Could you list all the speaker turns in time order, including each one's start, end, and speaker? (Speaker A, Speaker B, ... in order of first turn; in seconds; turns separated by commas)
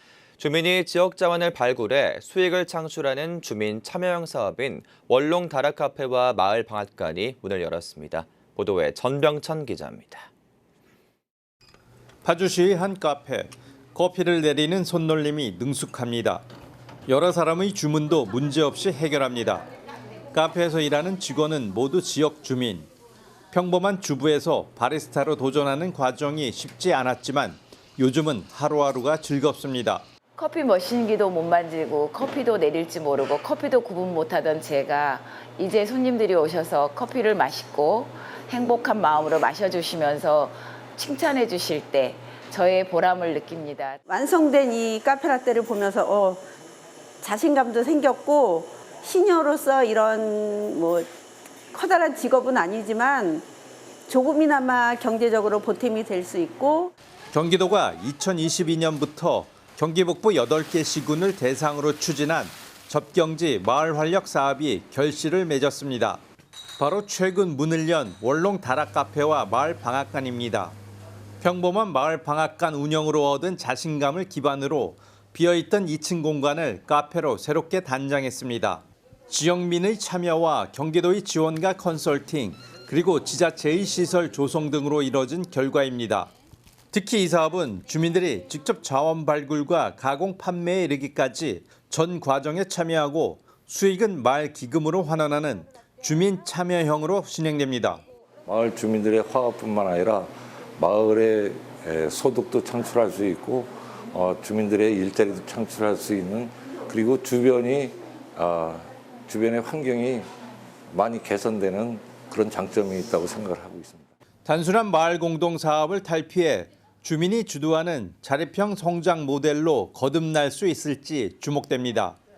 Speaker A: 0.4-10.3, Speaker B: 12.2-16.4, Speaker B: 17.1-19.6, Speaker B: 20.3-22.9, Speaker B: 23.5-30.0, Speaker C: 30.4-44.0, Speaker D: 44.0-46.4, Speaker D: 47.2-51.1, Speaker D: 51.7-53.5, Speaker D: 54.1-56.9, Speaker B: 57.3-66.2, Speaker B: 66.8-70.7, Speaker B: 71.4-86.3, Speaker B: 86.9-98.0, Speaker E: 98.5-110.3, Speaker E: 110.9-114.1, Speaker B: 114.5-122.2